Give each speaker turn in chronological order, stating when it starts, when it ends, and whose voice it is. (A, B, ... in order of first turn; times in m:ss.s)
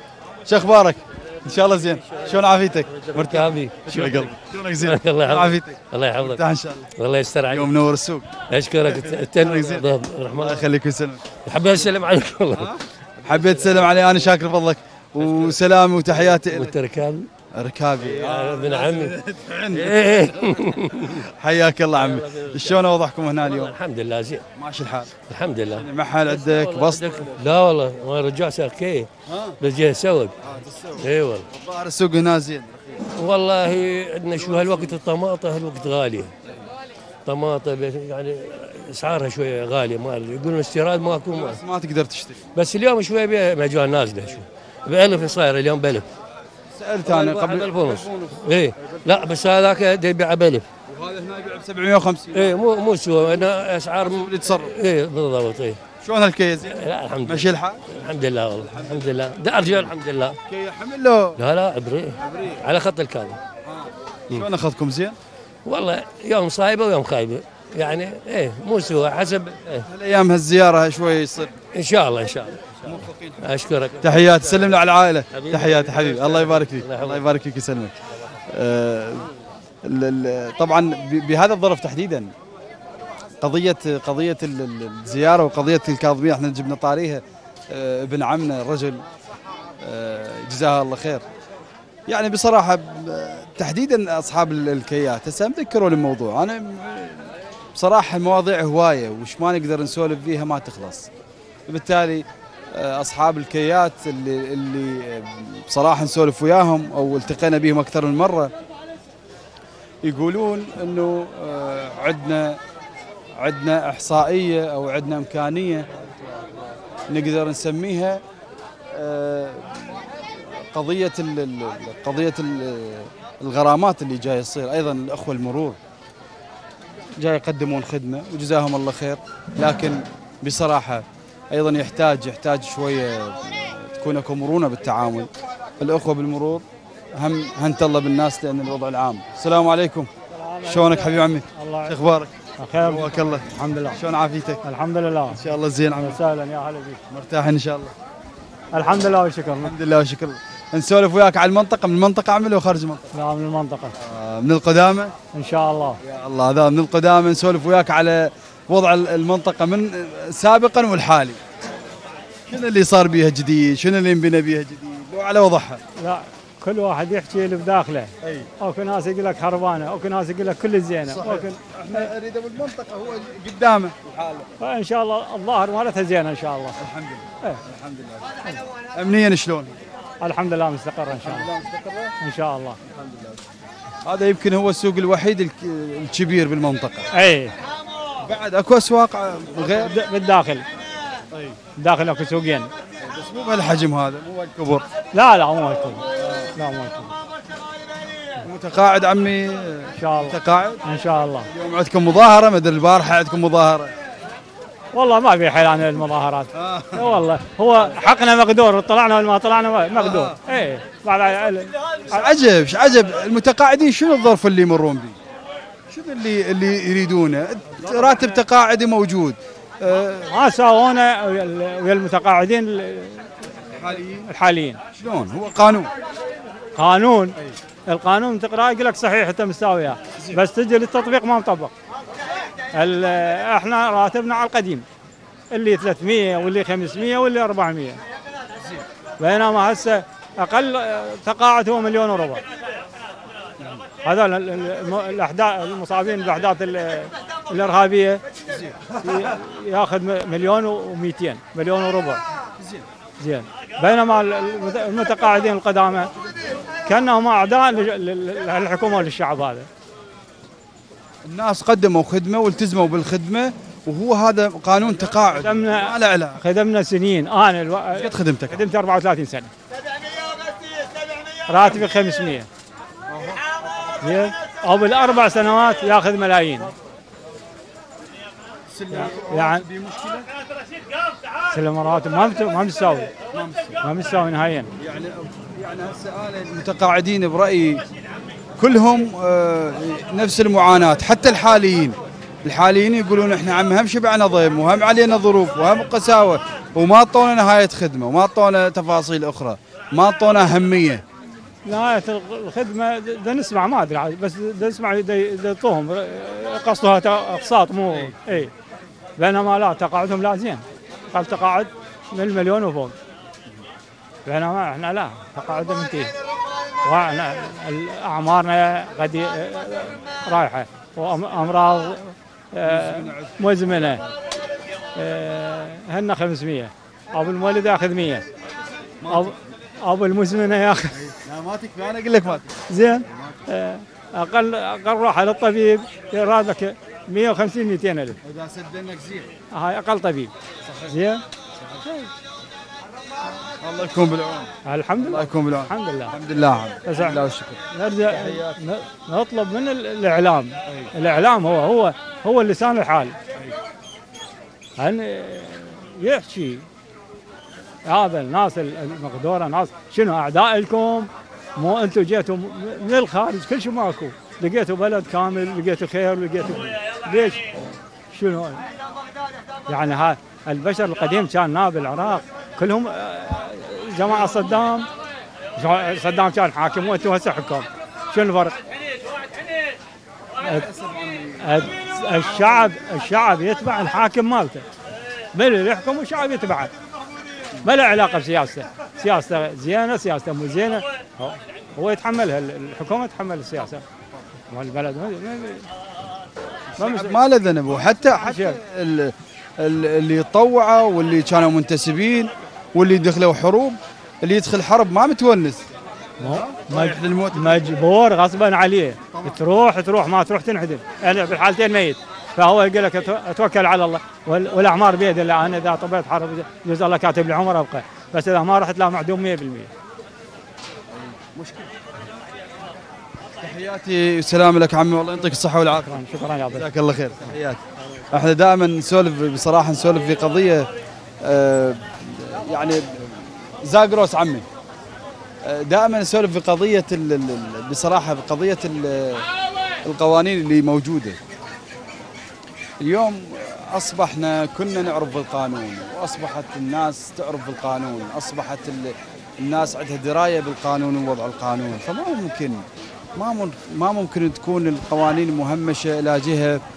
0:00.4-0:06.8 A
0:01.5-0:06.4 B
0:07.0-0:07.7 B
0:07.5-0:08.3 A
0:08.5-0:10.7 B
0:08.8-0:11.2 A
0:11.4-0:14.0 B
0:12.5-0:16.7 A
0:15.2-0:15.6 B
0:16.3-0:17.3 B
0:17.5-0:20.0 A
0:18.0-0:21.2 B
0:21.2-0:23.7 A
0:21.9-0:24.4 B
0:24.6-0:25.1 A
0:25.3-0:29.1 B
0:25.7-0:27.3 A
0:29.3-0:29.5 A
0:29.6-0:30.3 B
0:30.4-0:33.0 A
0:31.0-0:31.5 B
0:33.2-0:36.3 B
0:34.3-0:35.0 A
0:37.2-0:41.6 B
0:41.3-0:42.4 A
0:42.5-0:46.1 B
0:46.7-0:49.3 A
0:47.0-0:50.6 B
0:50.9-0:52.6 A
0:52.3-0:55.8 B
0:53.2-0:53.5 A
0:54.0-0:54.7 A
0:56.0-0:57.8 A
0:56.6-1:00.4 B
0:58.6-0:59.9 A
1:00.4-1:01.4 A
1:01.4-1:03.4 B
1:02.2-1:02.6 A
1:03.6-1:05.2 A
1:05.6-1:09.9 B
1:09.8-1:11.5 A
1:11.7-1:17.3 B
1:12.8-1:19.3 A
1:19.8-1:22.3 A
1:23.4-1:29.0 A
1:29.8-1:31.2 A
1:32.1-1:41.1 A
1:41.7-1:48.5 A
1:50.0-1:52.6 A
1:53.4-1:55.9 A
1:57.1-1:58.2 A
1:58.9-2:05.8 A
2:07.2-2:20.1 A
2:20.3-2:21.9 C
2:20.6-2:24.6 A
2:22.6-2:24.0 C
2:24.6-2:25.4 C
2:25.3-2:26.2 A
2:26.0-2:27.0 C
2:27.1-2:27.9 A
2:28.7-2:29.7 C
2:29.6-2:33.1 A
2:33.1-2:33.9 C
2:34.0-2:35.1 A
2:35.3-2:36.0 C
2:36.0-2:41.4 A
2:42.5-2:45.8 A
2:46.0-2:52.1 C
2:48.2-2:48.5 A
2:51.1-2:54.5 A
2:54.6-2:56.8 C
2:56.8-2:59.8 A
3:00.2-3:01.5 C
3:01.2-3:02.1 A
3:02.2-3:02.8 C
3:02.8-3:03.4 A
3:04.0-3:07.1 A
3:07.1-3:07.5 C
3:08.2-3:10.0 A
3:09.7-3:10.6 C
3:11.8-3:12.7 C
3:13.0-3:14.8 A
3:15.1-3:16.0 C
3:16.6-3:17.1 C
3:18.4-3:20.8 A
3:20.0-3:21.5 C
3:21.5-3:23.9 A
3:24.9-3:32.2 C
3:26.5-3:27.1 A
3:30.0-3:30.4 A
3:32.1-3:35.2 A
3:35.9-3:40.3 A
3:40.3-3:43.3 C
3:43.7-3:44.3 A
3:44.3-3:44.8 C
3:44.9-3:45.9 A
3:46.8-3:47.4 C
3:47.9-3:51.7 C
3:52.7-3:54.8 C
3:55.5-3:58.0 C
3:59.2-4:02.4 C
4:04.0-4:08.2 C
4:08.5-4:08.9 A
4:09.0-4:12.2 C
4:12.6-4:12.8 A
4:13.2-4:16.1 C
4:16.8-4:19.7 C
4:21.2-4:26.4 A
4:25.3-4:29.5 C
4:27.9-4:28.6 A
4:31.5-4:32.5 C
4:33.1-4:33.4 A
4:34.0-4:36.7 C
4:38.7-4:40.2 A
4:38.9-4:39.6 C
4:41.5-4:43.1 C
4:43.3-4:43.8 A
4:43.8-4:44.7 C
4:44.8-4:47.8 A
4:48.6-5:01.0 A
5:01.6-5:08.5 C
5:09.2-5:12.9 C
5:14.2-5:16.1 C
5:16.8-5:24.0 C
5:22.6-5:24.1 A
5:25.0-5:28.2 C
5:29.0-5:29.3 A
5:29.1-5:31.0 C
5:31.0-5:32.5 A
5:32.7-5:38.2 C
5:33.0-5:33.4 A
5:38.2-5:39.3 A
5:39.5-5:40.3 C
5:40.6-5:41.0 A
5:40.9-5:41.2 C
5:43.6-5:48.6 A
5:44.6-5:46.1 C
5:46.8-5:53.1 C
5:54.8-5:56.6 C
5:57.8-6:07.4 C
6:08.1-6:08.6 C
6:09.7-6:14.9 C
6:15.6-6:18.6 C
6:20.4-6:22.8 A
6:21.4-6:24.6 C
6:25.3-6:26.7 C
6:27.6-6:33.8 C
6:34.5-6:35.7 C
6:36.8-6:45.7 A
6:36.8-6:37.1 C
6:38.1-6:38.6 C
6:46.2-6:47.8 A
6:46.2-6:59.7 C
7:01.1-7:01.7 A
7:03.4-7:10.7 A
7:05.8-7:06.7 C
7:11.2-7:14.4 A
7:15.4-7:19.2 A
7:19.8-7:21.2 A
7:22.8-7:36.6 A